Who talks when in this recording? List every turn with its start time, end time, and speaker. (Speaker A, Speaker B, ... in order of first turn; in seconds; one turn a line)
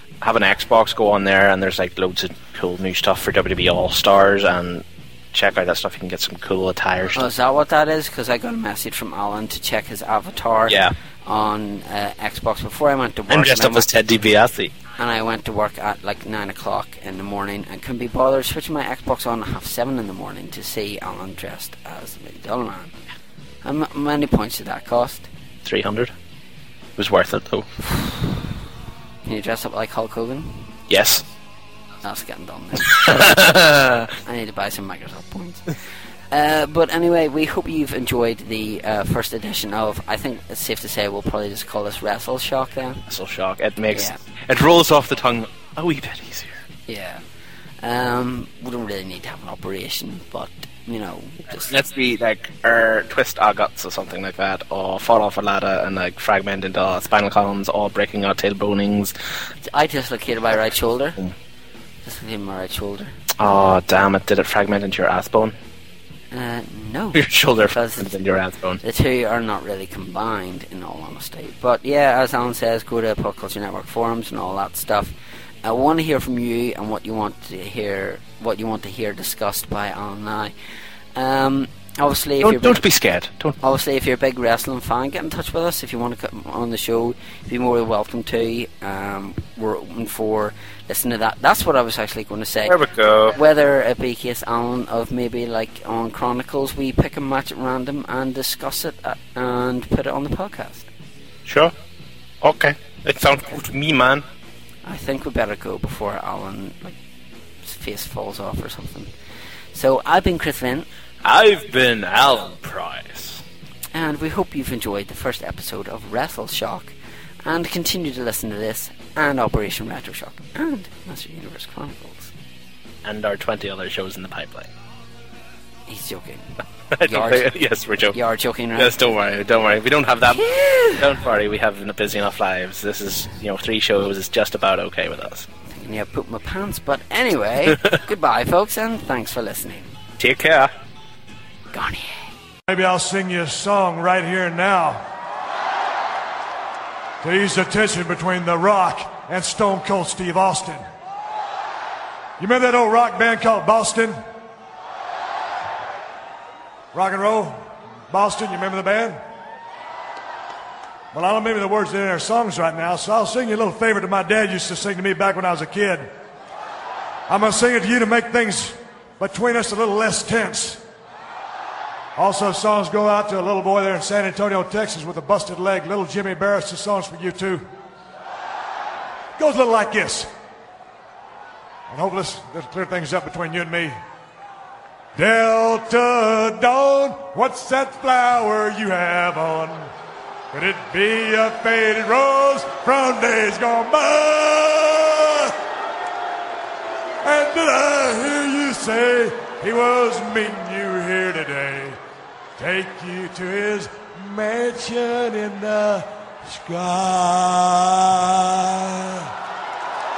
Speaker A: 0.2-7.3
Speaker B: 7.1-13.9
Speaker A: 10.7-10.9
Speaker A: 13.3-14.7
Speaker B: 15.0-22.9
Speaker B: 23.6-25.3
Speaker A: 25.6-26.1
Speaker A: 27.0-27.7
Speaker B: 27.9-28.2
Speaker B: 29.2-30.8
Speaker A: 30.9-31.2
Speaker B: 32.0-33.2
Speaker A: 32.9-34.1
Speaker B: 34.2-35.7
Speaker B: 36.3-43.0
Speaker A: 43.1-46.6
Speaker B: 43.9-44.2
Speaker B: 46.9-47.2
Speaker B: 47.8-51.7
Speaker A: 51.7-59.1
Speaker B: 59.6-61.2
Speaker B: 62.0-63.1
Speaker A: 63.4-65.5
Speaker B: 66.3-68.2
Speaker A: 67.1-68.8
Speaker B: 68.8-75.1
Speaker B: 75.6-80.5
Speaker B: 81.1-82.8
Speaker A: 82.4-83.6
Speaker B: 83.6-92.8
Speaker A: 92.7-93.3
Speaker B: 93.3-100.9
Speaker A: 101.5-101.7
Speaker A: 102.4-104.2
Speaker B: 104.8-107.0
Speaker B: 107.6-109.1
Speaker B: 109.7-110.9
Speaker A: 111.2-113.4
Speaker B: 113.9-122.3
Speaker A: 123.0-124.7
Speaker B: 125.9-127.5
Speaker A: 126.9-128.2
Speaker B: 128.1-129.1
Speaker A: 128.8-135.5
Speaker B: 130.3-131.1
Speaker B: 135.7-139.9
Speaker A: 140.2-140.7
Speaker B: 141.7-142.3
Speaker C: 142.7-145.0
Speaker C: 147.2-150.8
Speaker C: 152.4-154.2
Speaker C: 156.9-159.2
Speaker C: 161.1-166.1
Speaker C: 167.3-170.8
Speaker C: 172.2-177.7
Speaker C: 179.4-180.3
Speaker C: 181.9-184.0
Speaker C: 185.2-189.9
Speaker C: 190.5-195.5
Speaker C: 197.2-202.0
Speaker C: 202.6-209.3